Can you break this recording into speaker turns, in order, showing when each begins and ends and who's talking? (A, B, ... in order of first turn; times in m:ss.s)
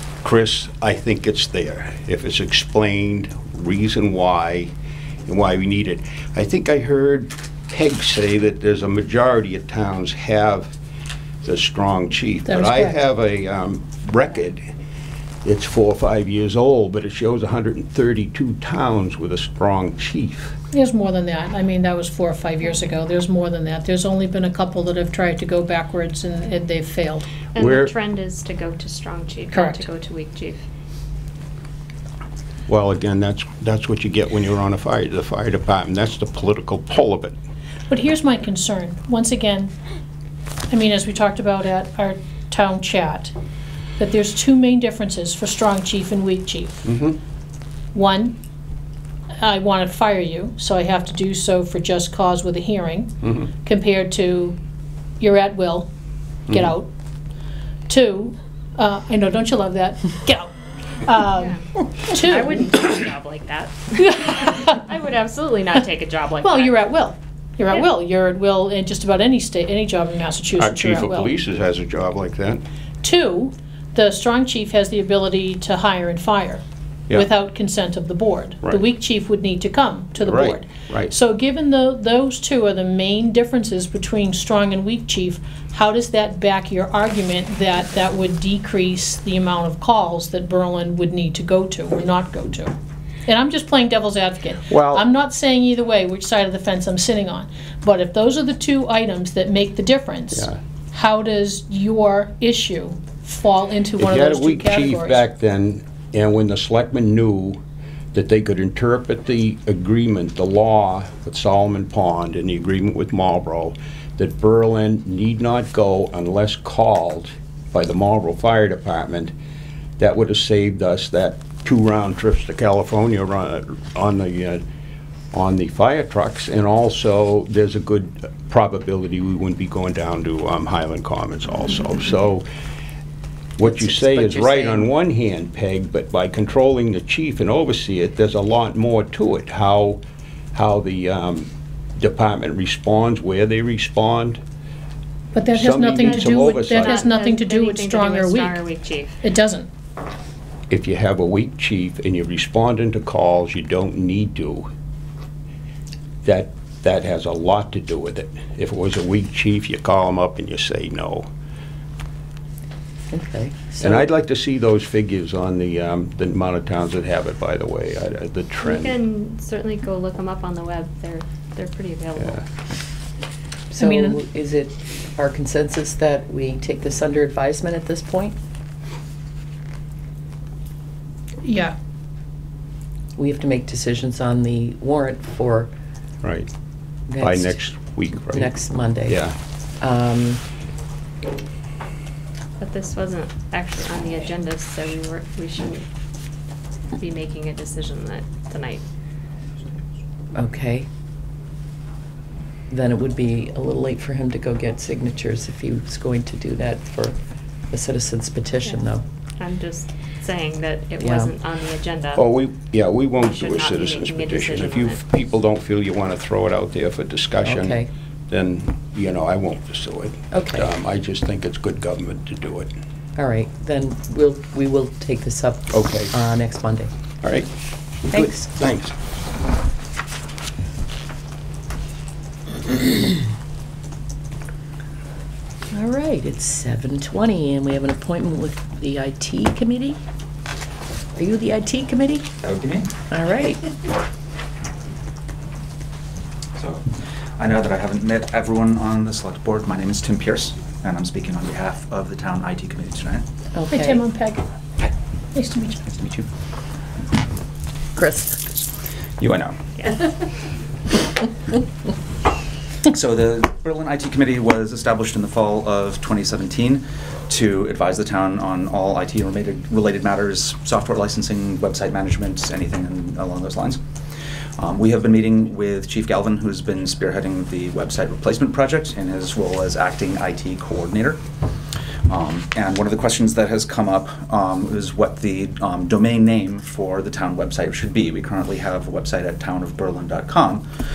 0:00.2-0:04.7 A
0:05.2-0:10.7 A
0:11.4-0:14.6 A
0:12.4-0:13.0 B
0:15.4-0:20.6 A
0:20.7-0:27.5 B
0:27.5-0:30.6 C
0:27.6-0:27.9 A
0:29.5-0:29.8 B
0:32.7-0:37.4 A
0:37.9-0:39.7 B
0:40.7-0:43.3 B
0:44.0-0:47.0 B
0:46.8-0:47.2 A
0:47.9-0:48.4 B
0:49.4-0:54.6 B
0:55.2-0:55.9 B
0:56.5-0:56.9 B
0:57.9-1:02.7 B
1:01.4-1:06.8 C
1:06.4-1:11.4 B
1:10.6-1:12.6 A
1:13.0-1:32.7 B
1:20.2-1:21.1 A
1:33.2-1:45.2 B
1:34.7-1:35.0 A
1:44.0-1:47.6 A
1:48.1-1:59.3 A
2:00.0-2:04.6 A
2:05.3-2:12.4 A
2:13.6-2:20.0 A
2:13.6-2:14.9 D
2:20.5-2:24.4 A
2:25.3-2:28.6 B
2:25.5-2:27.1 A
2:26.0-2:29.2 C
2:29.2-2:29.7 B
2:30.7-2:34.7 A
2:36.2-2:41.3 A
2:43.1-2:44.1 D
2:43.8-2:49.0 A
2:48.6-2:52.4 C
2:52.2-2:52.4 A
2:53.7-2:58.4 D
2:53.8-2:54.2 B
3:01.4-3:01.7 B
3:03.2-3:05.7 D
3:06.2-3:06.5 A
3:07.1-3:07.6 D
3:07.2-3:08.5 A
3:08.3-3:09.2 D
3:09.0-3:09.4 A
3:09.8-3:10.4 D
3:12.6-3:15.8 C
3:17.0-3:18.8 C
3:20.4-3:20.9 D
3:22.7-3:27.2 D
3:27.7-3:29.0 D
3:29.4-3:32.2 C
3:31.0-3:31.3 D
3:32.1-3:42.7 A
3:33.2-3:35.0 C
3:37.4-3:37.9 D
3:40.3-3:40.7 D
3:43.2-3:46.9 D
3:45.7-3:46.1 A
3:47.2-3:47.5 A
3:48.0-3:48.9 A
3:48.1-3:48.5 D
3:55.7-4:00.0 D
4:01.2-4:02.3 D
4:02.4-4:02.9 E
4:03.1-4:03.6 D
4:06.6-4:13.2 E
4:13.5-4:14.0 D
4:13.7-4:14.4 B
4:15.3-4:15.8 B
4:15.9-4:16.3 E
4:18.0-4:18.5 D
4:19.2-4:19.6 E
4:22.9-4:33.8 E
4:34.6-4:41.2 E
4:42.1-4:50.6 E